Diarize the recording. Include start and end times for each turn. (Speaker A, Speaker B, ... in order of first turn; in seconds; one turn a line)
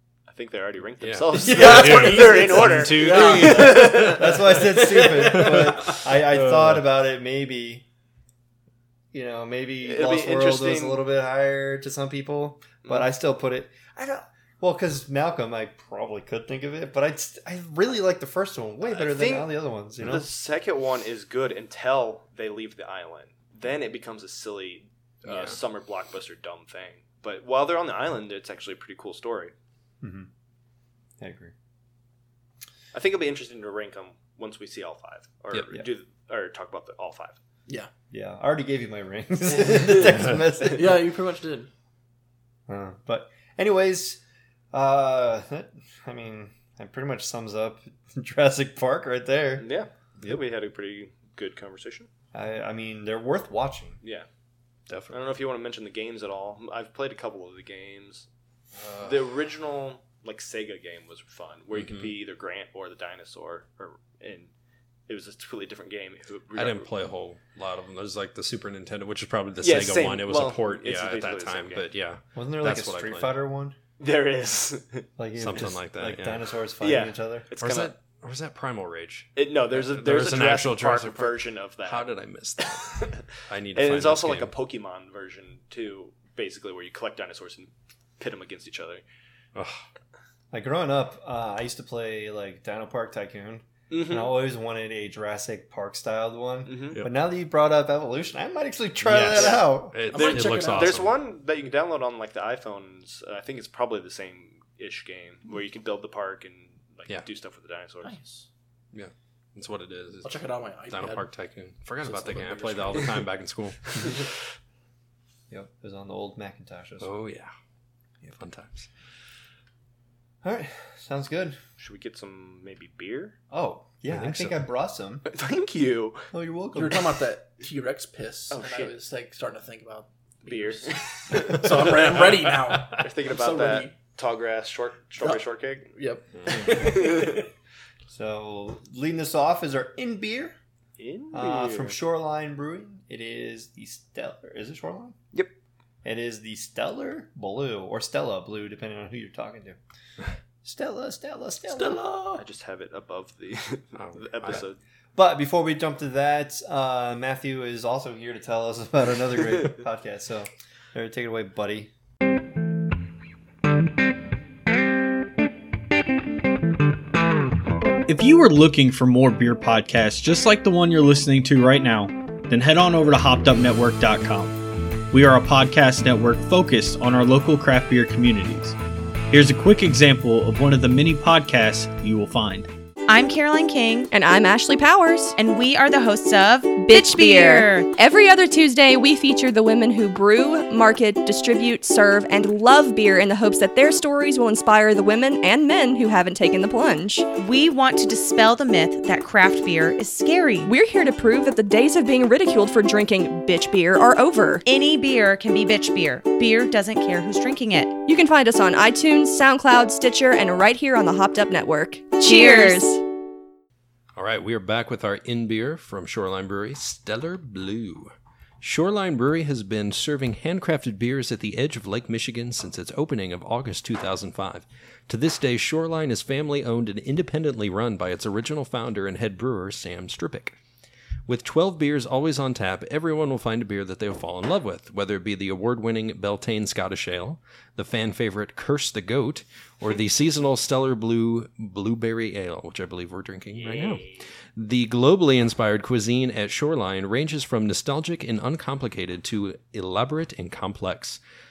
Speaker A: 0.3-4.3
Speaker B: 1.0-6.8
Speaker C: 1.3-2.5
Speaker D: 1.5-4.1
Speaker C: 4.0-7.8
Speaker D: 5.0-5.5
Speaker C: 9.1-20.3
Speaker A: 9.8-11.0
Speaker A: 18.8-29.5
Speaker B: 25.2-25.6
Speaker C: 30.0-30.3
Speaker C: 31.2-31.5
Speaker A: 32.9-37.4
Speaker C: 38.1-41.1
Speaker D: 40.7-41.7
Speaker C: 42.7-49.7
Speaker A: 49.6-52.1
Speaker C: 52.3-54.0
Speaker A: 54.0-54.3
Speaker B: 54.9-55.2
Speaker A: 55.1-58.3
Speaker A: 59.0-64.5
Speaker B: 61.7-62.1
Speaker A: 65.1-66.9
Speaker B: 66.5-73.3
Speaker A: 69.6-71.8
Speaker C: 72.3-73.8
Speaker A: 74.0-75.1
Speaker C: 75.2-77.5
Speaker B: 75.4-76.4
Speaker A: 76.8-77.9
Speaker B: 77.6-84.5
Speaker A: 79.3-82.1
Speaker A: 82.6-89.0
Speaker B: 89.5-89.8
Speaker C: 90.5-100.0
Speaker A: 93.9-94.3
Speaker A: 96.7-97.0
Speaker B: 99.0-101.2
Speaker D: 100.1-100.9
Speaker A: 100.1-108.1
Speaker D: 108.0-108.5
Speaker B: 108.9-114.3
Speaker D: 110.2-111.3
Speaker A: 112.2-113.2
Speaker C: 115.5-117.1
Speaker B: 117.0-117.5
Speaker B: 118.2-118.9
Speaker C: 120.4-121.6
Speaker A: 121.8-123.4
Speaker C: 123.5-125.3
Speaker B: 124.1-124.6
Speaker A: 125.2-126.3
Speaker C: 126.3-127.2
Speaker D: 126.7-134.0
Speaker A: 128.5-128.9
Speaker A: 130.4-132.3
Speaker A: 132.9-135.9
Speaker D: 135.2-137.4
Speaker B: 136.4-136.7
Speaker A: 136.5-137.4
Speaker C: 138.1-140.6
Speaker A: 141.0-142.0
Speaker C: 141.3-145.2
Speaker C: 146.0-149.8
Speaker C: 150.6-152.2
Speaker D: 151.7-152.4
Speaker A: 152.3-154.8
Speaker B: 153.9-154.6
Speaker C: 155.1-161.9
Speaker E: 168.1-174.6
Speaker E: 175.1-178.8
Speaker E: 179.3-182.7
Speaker F: 183.1-184.1
Speaker G: 184.1-185.3
Speaker F: 185.3-187.9
Speaker G: 186.8-197.3
Speaker F: 197.3-200.7
Speaker G: 200.6-204.6
Speaker F: 204.6-207.9
Speaker G: 208.1-213.0
Speaker F: 212.2-212.9
Speaker B: 214.2-230.6
Speaker B: 231.3-251.2
Speaker A: 243.5-244.2